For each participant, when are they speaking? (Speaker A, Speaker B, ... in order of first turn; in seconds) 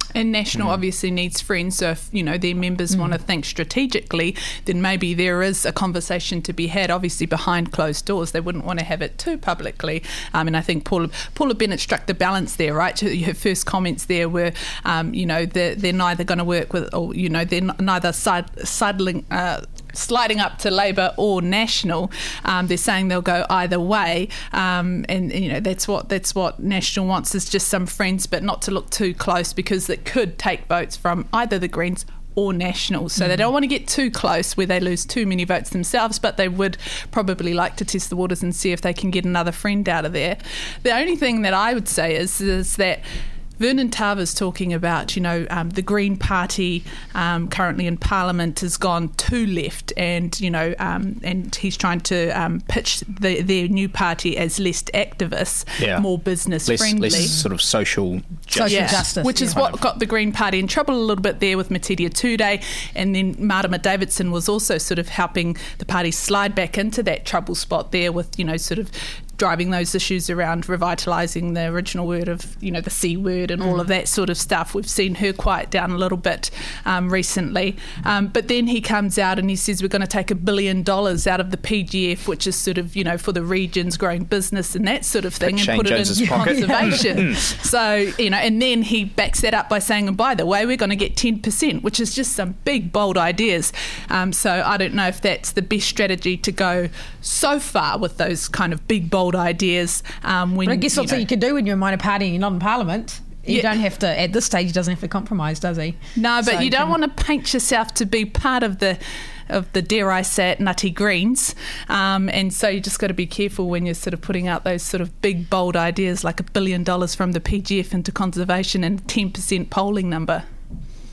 Speaker A: 0.1-43.0, 43.6-57.4, 58.6-101.2, 103.5-103.7, 106.2-120.4
Speaker B: 55.8-56.0, 56.7-59.8, 85.4-87.4
Speaker C: 57.1-57.4, 58.5-59.6, 86.2-87.3, 100.6-107.0